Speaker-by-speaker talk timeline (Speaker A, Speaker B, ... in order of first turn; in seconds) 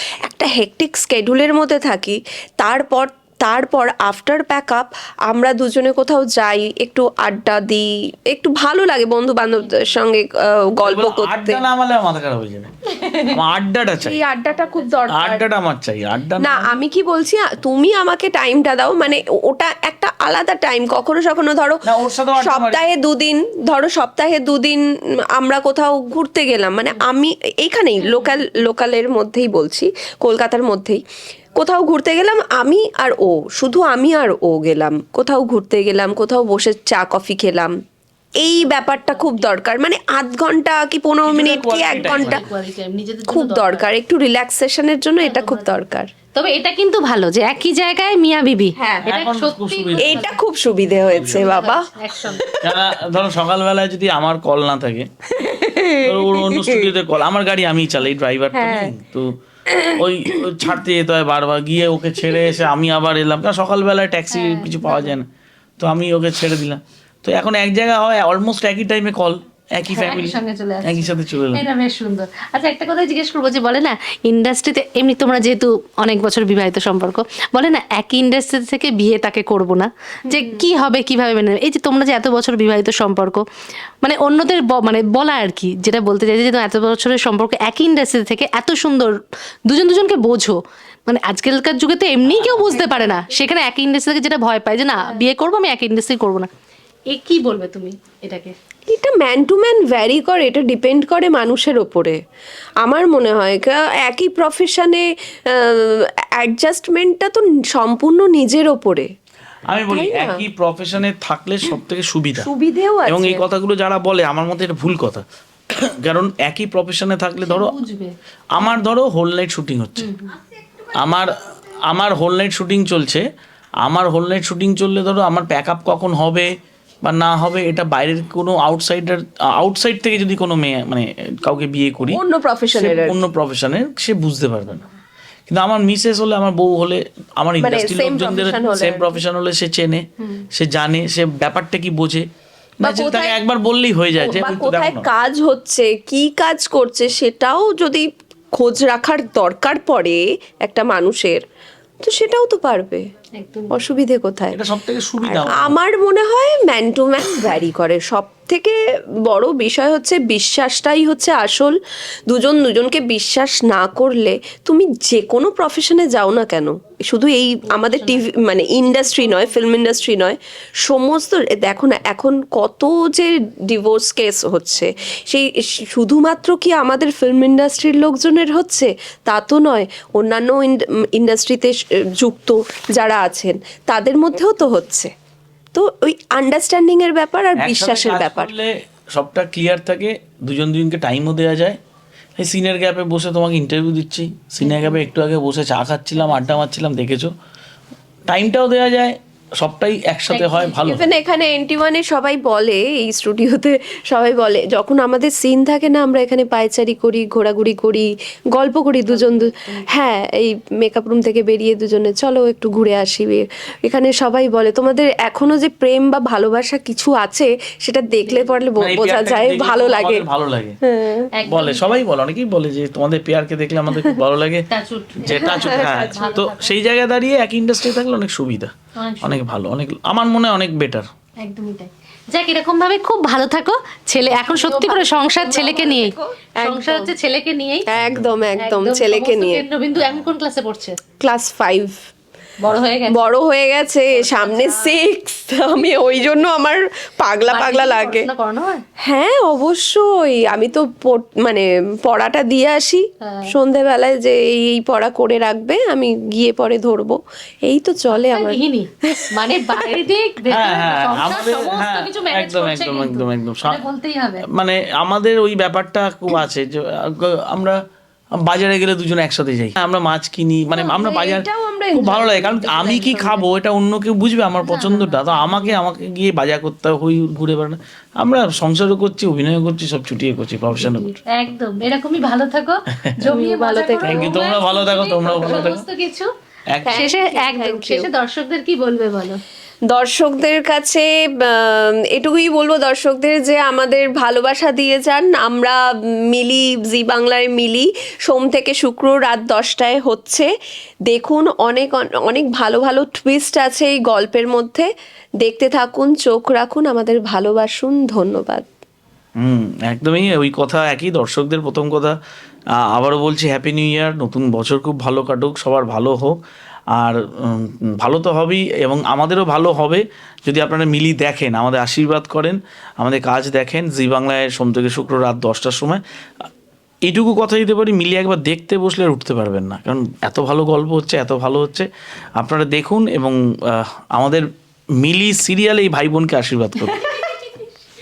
Speaker A: 0.2-11.6, 14.0-15.4, 16.4-21.8, 22.4-31.0, 31.6-37.7, 38.4-42.4, 43.3-46.1, 48.8-49.0, 50.0-52.6, 55.3-56.9, 58.5-58.9, 59.7-60.4, 62.2-62.5, 80.3-80.7, 98.9-102.2, 102.8-109.1, 109.9-110.4, 112.4-113.4, 132.1-133.2, 137.6-139.2, 142.8-143.4, 144.2-151.4, 152.0-153.1, 153.7-154.6, 155.2-161.8, 162.3-185.1, 185.7-188.5, 200.8-220.2, 220.8-221.3, 225.2-226.4, 234.5-237.1, 237.9-239.6, 241.2-242.0, 243.1-248.3, 249.0-259.9, 270.8-273.4, 283.2-284.5, 285.4-285.7, 286.9-288.1, 289.9-300.5, 301.1-304.9, 305.4-308.6
Speaker B: 9.6-10.0, 14.5-15.0, 38.4-39.4, 42.0-43.9, 45.2-45.8, 46.3-50.4, 51.1-52.6, 64.3-65.1, 70.0-83.4, 84.0-96.5, 97.1-98.5, 117.4-118.1, 120.0-120.3, 153.3-153.8, 167.7-168.2, 196.2-196.6, 200.3-200.9, 209.1-209.9, 218.3-218.5, 221.3-222.0, 224.7-226.8, 228.9-229.4, 231.4-237.9, 238.6-241.0, 242.6-243.3, 244.1-245.0, 245.7-246.4, 247.5-248.8, 253.2-253.5, 258.1-264.4, 274.6-275.8, 280.7-286.3, 286.9-289.4, 336.9-337.7
Speaker C: 10.8-14.2, 15.1-16.8, 21.8-22.9, 41.2-42.4, 49.0-50.2, 51.1-51.5, 52.6-55.1, 56.0-59.3, 59.9-65.3, 65.8-71.6, 92.2-92.8, 109.7-112.5, 113.1-117.7, 118.5-120.1, 120.9-121.3, 121.9-123.2, 123.8-126.5, 127.0-132.2, 132.7-134.8, 135.5-142.2, 142.8-145.1, 154.5-155.8, 187.6-191.8, 192.4-197.3, 198.3-201.1, 218.8-220.8, 221.5-224.7, 225.2-231.1, 260.5-263.8, 264.4-267.8, 268.4-281.1, 284.0-285.8, 286.7-287.1, 309.4-312.1, 312.8-316.4, 316.9-326.0, 327.1-337.1